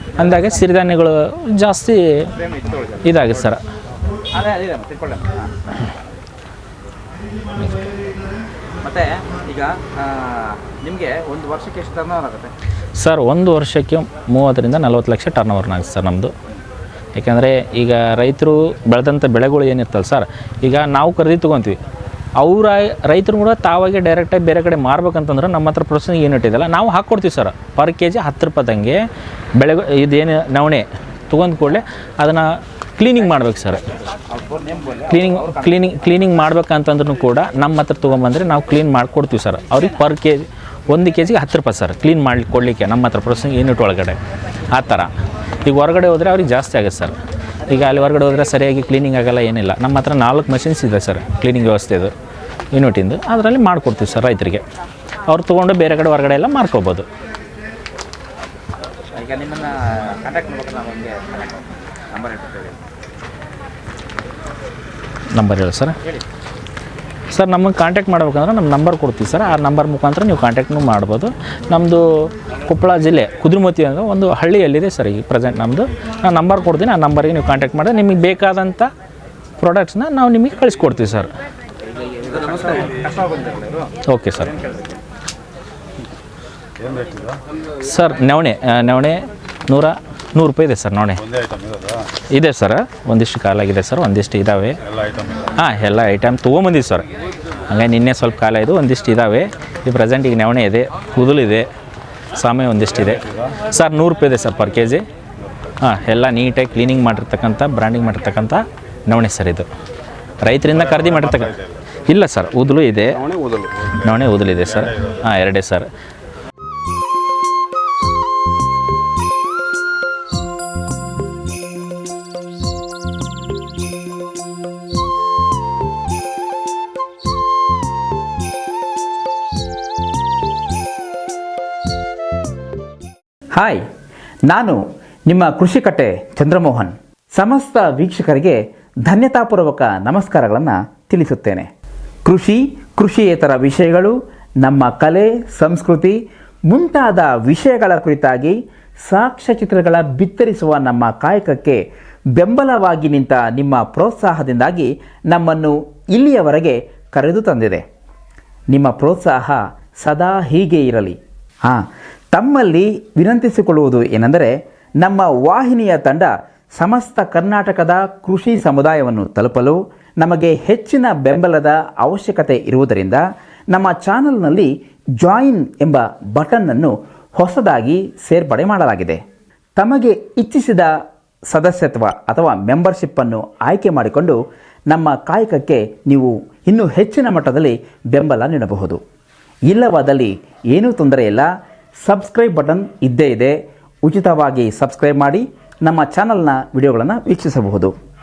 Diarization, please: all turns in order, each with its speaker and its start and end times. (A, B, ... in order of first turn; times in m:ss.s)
0:00.1-0:00.4 A
0:00.2-0:02.3 B
0:02.4-0:03.2 A
0:03.0-0:03.6 B
0:04.3-0:05.5 A
0:07.6-0:07.9 B
0:08.8-0:12.5 A
0:13.0-0:16.3 B
0:17.1-0:21.8 B
0:22.4-0:29.0 B
0:29.6-0:33.9 B
0:34.3-0:35.7 A
0:35.1-0:44.2 B
0:44.7-0:45.1 B
0:45.6-0:52.1 B
0:52.7-0:54.6 B
0:55.3-0:57.1 B
0:59.1-1:02.8 A
1:05.3-1:06.0 B
1:07.3-1:18.9 B
1:19.6-1:21.3 B
1:22.0-1:23.9 A
1:24.0-1:24.6 B
1:27.8-1:31.2 B
1:32.3-1:34.8 B
1:35.4-1:37.1 B
1:37.7-1:41.7 B
1:42.4-1:45.0 B
1:45.8-1:49.7 B
1:50.4-1:53.3 B
1:53.9-1:55.9 B
2:13.6-2:13.8 C
2:14.5-2:21.7 C
2:22.2-2:26.2 C
2:26.7-2:28.6 C
2:29.1-2:31.8 C
2:32.3-2:37.8 C
2:38.7-2:59.2 C
2:59.8-3:00.9 C
3:01.5-3:04.4 C
3:04.9-3:09.0 C
3:09.7-3:11.5 C
3:12.0-3:17.9 C